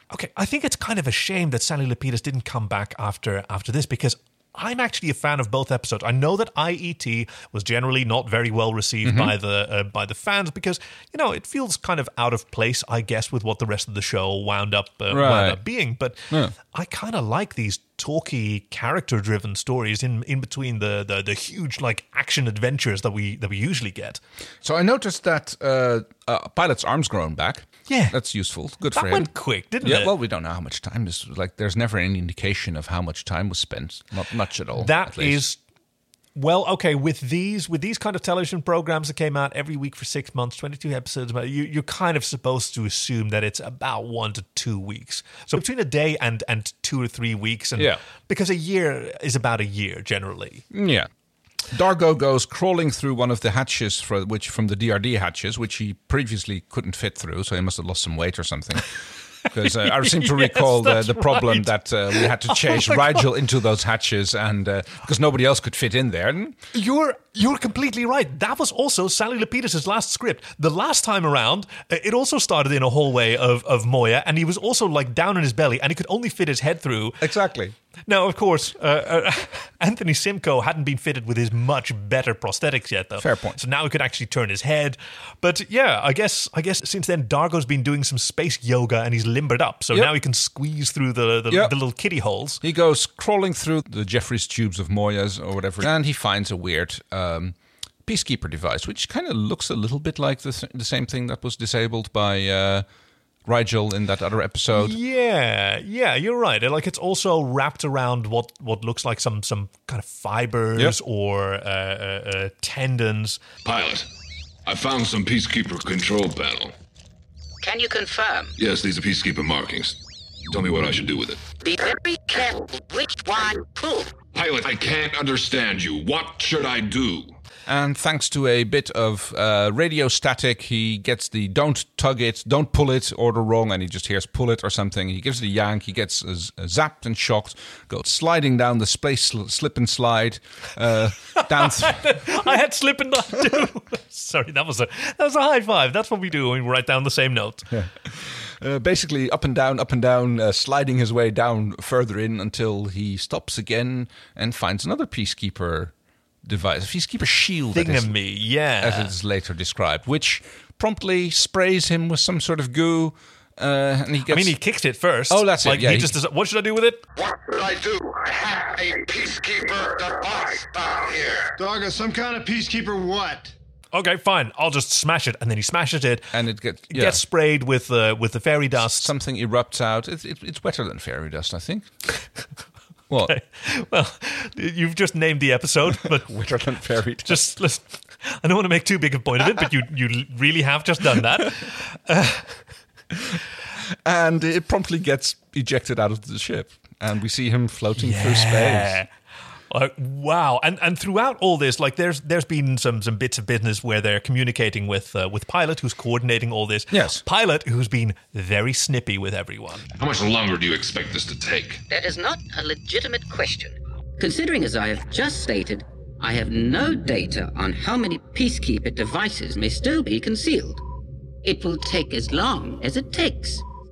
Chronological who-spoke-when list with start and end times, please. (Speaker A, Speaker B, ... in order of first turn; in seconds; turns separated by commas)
Speaker A: 0.1-24.2, Speaker B: 9.0-9.3, Speaker B: 15.1-15.6, Speaker B: 24.6-29.3, Speaker A: 27.9-28.1, Speaker A: 28.9-30.1, Speaker B: 29.8-35.4, Speaker A: 34.8-35.6, Speaker A: 36.4-50.6, Speaker B: 50.7-51.1, Speaker B: 51.7-59.0, Speaker B: 59.5-66.6, Speaker A: 59.5-63.3, Speaker A: 66.7-77.2, Speaker B: 77.2-77.8, Speaker A: 78.1-92.6, Speaker B: 83.2-83.6, Speaker B: 91.5-91.8, Speaker B: 92.6-102.9, Speaker B: 103.5-105.0, Speaker A: 104.7-113.4, Speaker C: 113.6-114.1, Speaker C: 114.7-116.7, Speaker D: 117.6-118.5, Speaker C: 118.6-120.0, Speaker C: 120.5-121.4, Speaker D: 121.6-124.1, Speaker C: 124.3-127.3, Speaker B: 127.7-142.4, Speaker A: 141.3-147.7, Speaker B: 147.7-155.9, Speaker B: 156.4-158.1, Speaker A: 157.7-159.1, Speaker B: 158.8-164.6, Speaker A: 164.3-167.0, Speaker B: 165.3-166.2, Speaker E: 167.2-171.4, Speaker F: 171.6-173.5, Speaker A: 173.9-176.3, Speaker B: 176.3-177.2, Speaker A: 176.9-179.1, Speaker B: 178.8-181.9, Speaker B: 183.1-183.4, Speaker A: 183.3-186.3, Speaker B: 186.0-187.5, Speaker A: 187.2-192.6, Speaker B: 193.1-199.0, Speaker A: 198.0-199.1, Speaker A: 199.7-209.8, Speaker B: 206.9-207.2, Speaker C: 209.9-211.8, Speaker D: 211.9-220.8, Speaker D: 221.4-223.6